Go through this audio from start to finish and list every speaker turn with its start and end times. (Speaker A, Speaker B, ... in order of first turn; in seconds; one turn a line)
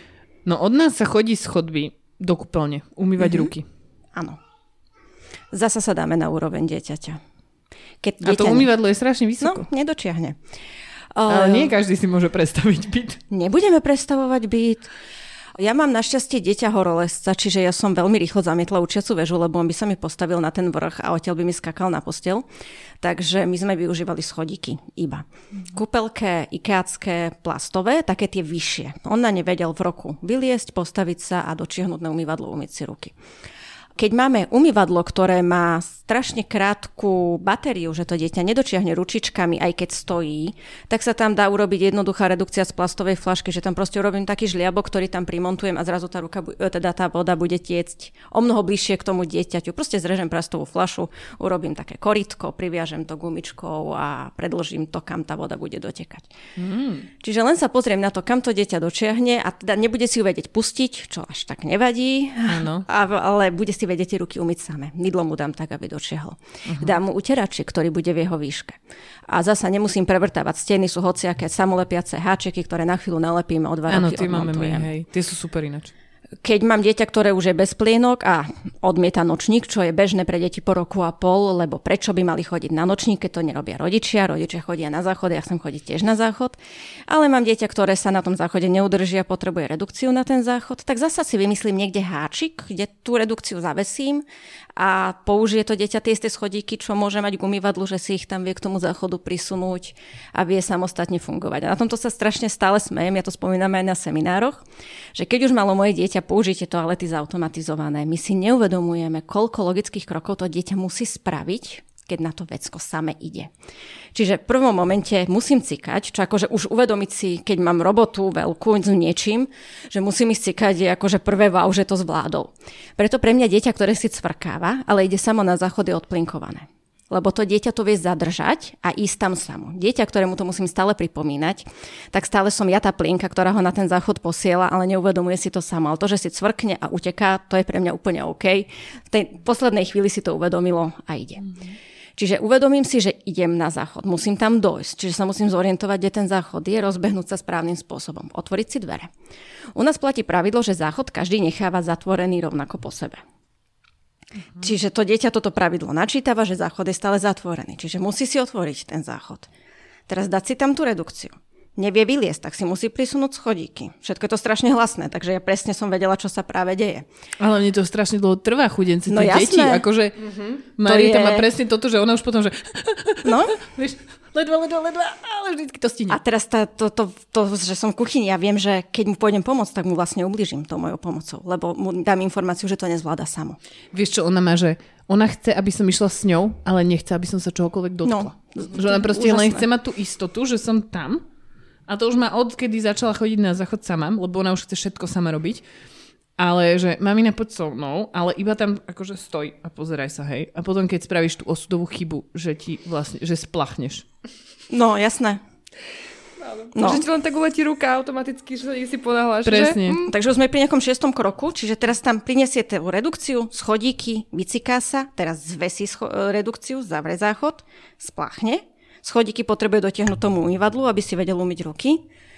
Speaker A: 0.5-3.6
Speaker B: 3.2-3.5
Speaker B: 4.1-4.4
Speaker B: 5.5-7.2
Speaker B: 8.0-8.7
Speaker A: 8.2-9.7
Speaker B: 9.4-10.4
Speaker B: 11.1-11.8
Speaker A: 11.3-13.2
Speaker B: 13.3-14.9
Speaker B: 15.5-22.4
Speaker B: 23.0-33.1
Speaker B: 34.0-56.3
Speaker A: 56.6-57.1
Speaker B: 57.2-74.9
Speaker A: 62.5-62.9
Speaker A: 66.7-66.9
Speaker A: 73.9-75.9
Speaker B: 76.4-94.2
Speaker B: 94.8-104.6
Speaker B: 105.1-113.5
Speaker B: 114.1-141.5
Speaker B: 142.2-149.1
Speaker B: 149.7-153.2
Speaker B: 154.6-159.5
Speaker B: 160.1-167.1
Speaker A: 167.4-176.2
Speaker B: 169.1-169.8
Speaker B: 170.8-171.5
Speaker B: 173.2-173.6
Speaker B: 176.1-183.6
Speaker A: 183.9-191.2
Speaker B: 188.0-189.7
Speaker A: 191.9-195.6
Speaker A: 196.4-204.0
Speaker B: 204.7-205.4
Speaker C: 206.4-210.1
Speaker B: 206.7-207.0
Speaker A: 209.4-210.0
Speaker B: 210.1-222.0